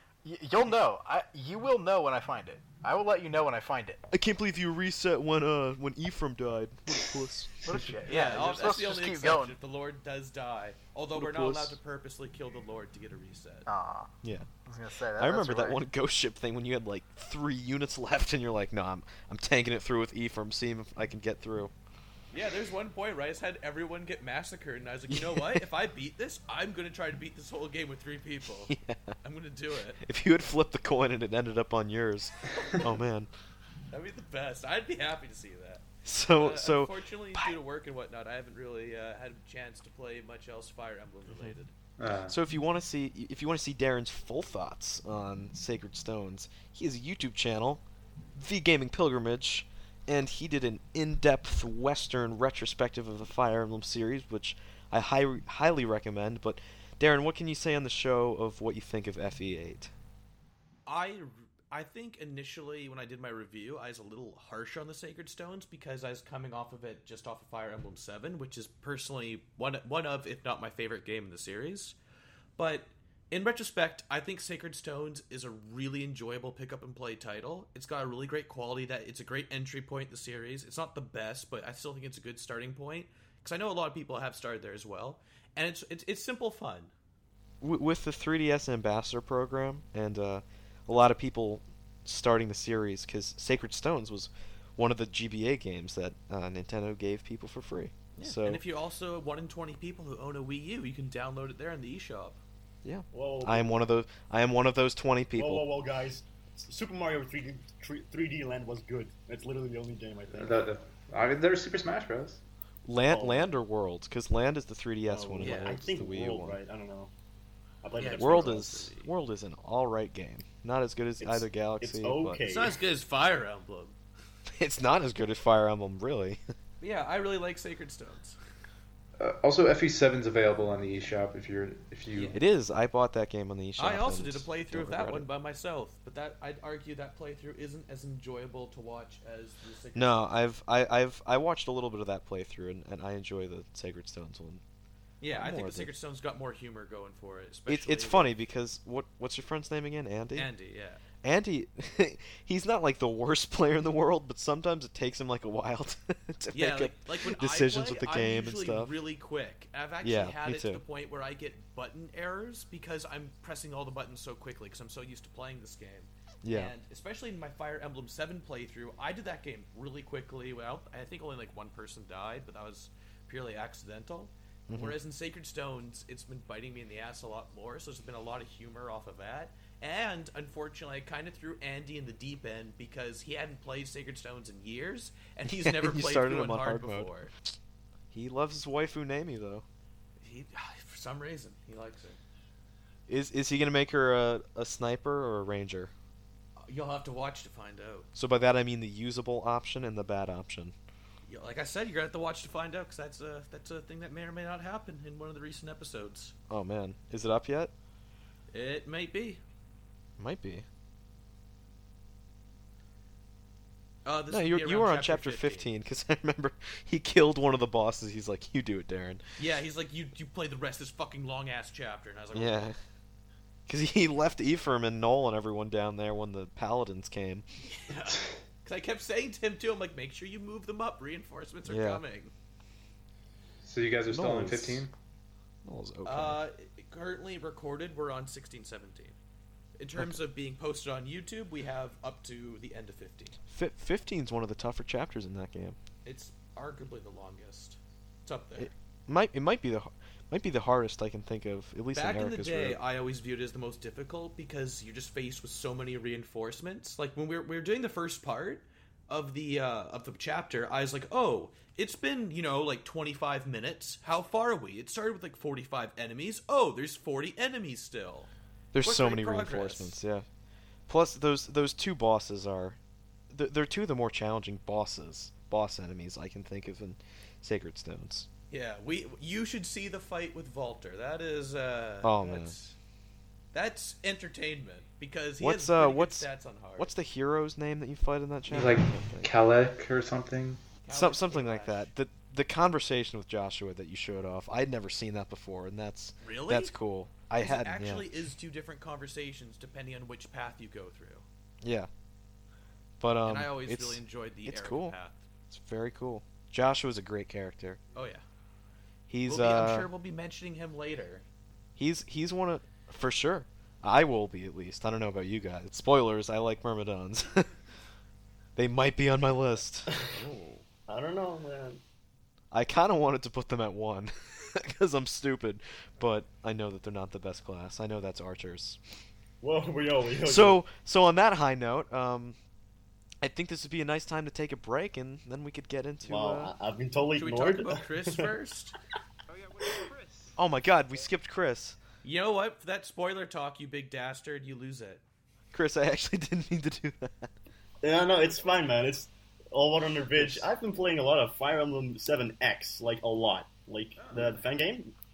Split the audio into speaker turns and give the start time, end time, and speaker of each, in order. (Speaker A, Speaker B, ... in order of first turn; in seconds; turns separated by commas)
Speaker A: 0.2-4.0, Speaker B: 4.1-8.4, Speaker A: 7.6-9.6, Speaker C: 8.1-13.7, Speaker B: 11.1-11.8, Speaker A: 13.7-14.1, Speaker B: 14.2-14.5, Speaker A: 14.7-15.8, Speaker B: 15.2-21.7, Speaker C: 22.3-30.0, Speaker B: 25.1-25.7, Speaker B: 28.7-29.2, Speaker B: 30.0-33.3, Speaker C: 33.9-41.7, Speaker B: 36.0-37.5, Speaker D: 42.0-42.4, Speaker B: 42.3-47.8, Speaker B: 48.4-59.9, Speaker C: 60.9-72.0, Speaker C: 72.6-86.9, Speaker B: 87.6-98.6, Speaker C: 98.2-102.4, Speaker B: 102.8-105.6, Speaker E: 103.1-103.8, Speaker E: 105.4-110.7, Speaker D: 110.3-112.4, Speaker B: 112.9-116.6, Speaker E: 113.1-113.5, Speaker E: 115.1-117.1, Speaker C: 115.4-115.8, Speaker E: 117.8-118.7, Speaker C: 118.0-119.1, Speaker B: 118.2-122.4, Speaker E: 121.2-122.8, Speaker C: 122.5-124.0, Speaker B: 124.6-126.4, Speaker C: 126.8-128.4, Speaker D: 129.2-132.4, Speaker C: 132.1-132.4, Speaker B: 132.3-135.3, Speaker C: 133.8-140.3, Speaker B: 139.9-144.6, Speaker C: 145.2-148.3, Speaker B: 145.3-145.9, Speaker B: 147.7-150.5, Speaker C: 150.4-151.0, Speaker B: 151.2-159.0, Speaker C: 156.5-187.3, Speaker B: 160.0-160.8, Speaker B: 166.4-166.7, Speaker B: 174.7-175.0, Speaker B: 185.4-187.1, Speaker B: 188.1-189.7, Speaker C: 190.2-192.2, Speaker B: 193.1-195.9, Speaker C: 196.6-198.1, Speaker B: 198.2-200.8, Speaker C: 201.3-206.3, Speaker B: 206.5-207.7, Speaker C: 208.5-209.4, Speaker B: 210.2-210.7, Speaker C: 214.1-215.7, Speaker B: 214.3-219.2, Speaker C: 219.4-222.7, Speaker B: 222.3-222.8, Speaker B: 223.7-227.4, Speaker C: 227.6-232.3, Speaker B: 231.7-232.0, Speaker D: 233.6-234.9, Speaker B: 234.1-234.9, Speaker B: 235.7-236.4, Speaker C: 236.1-239.2, Speaker C: 239.8-243.4, Speaker B: 243.5-245.8, Speaker C: 246.1-248.7, Speaker B: 248.6-252.8, Speaker C: 251.9-268.3, Speaker B: 268.7-270.3, Speaker C: 268.8-270.0, Speaker B: 270.9-272.8, Speaker B: 273.3-278.3, Speaker C: 278.5-282.8, Speaker B: 282.0-282.6, Speaker C: 283.5-286.9, Speaker B: 285.4-289.3, Speaker D: 288.5-290.6, Speaker C: 290.8-291.9, Speaker B: 290.9-298.1, Speaker C: 296.2-296.8, Speaker C: 297.4-301.2, Speaker B: 301.6-301.9, Speaker B: 303.0-305.0, Speaker C: 303.3-305.2, Speaker B: 305.5-307.8, Speaker C: 307.9-308.2, Speaker B: 309.1-309.9, Speaker C: 309.3-311.2, Speaker B: 311.8-317.5, Speaker B: 318.6-319.9, Speaker C: 320.0-320.6, Speaker E: 320.9-321.8, Speaker B: 322.5-328.8, Speaker E: 329.4-330.6, Speaker B: 330.2-332.4, Speaker B: 333.2-336.5, Speaker E: 336.0-338.3, Speaker C: 337.1-338.8, Speaker D: 339.3-340.4, Speaker B: 340.4-341.8, Speaker C: 342.0-345.0, Speaker B: 345.5-347.3, Speaker E: 347.8-354.9, Speaker B: 350.1-350.5, Speaker C: 354.0-354.4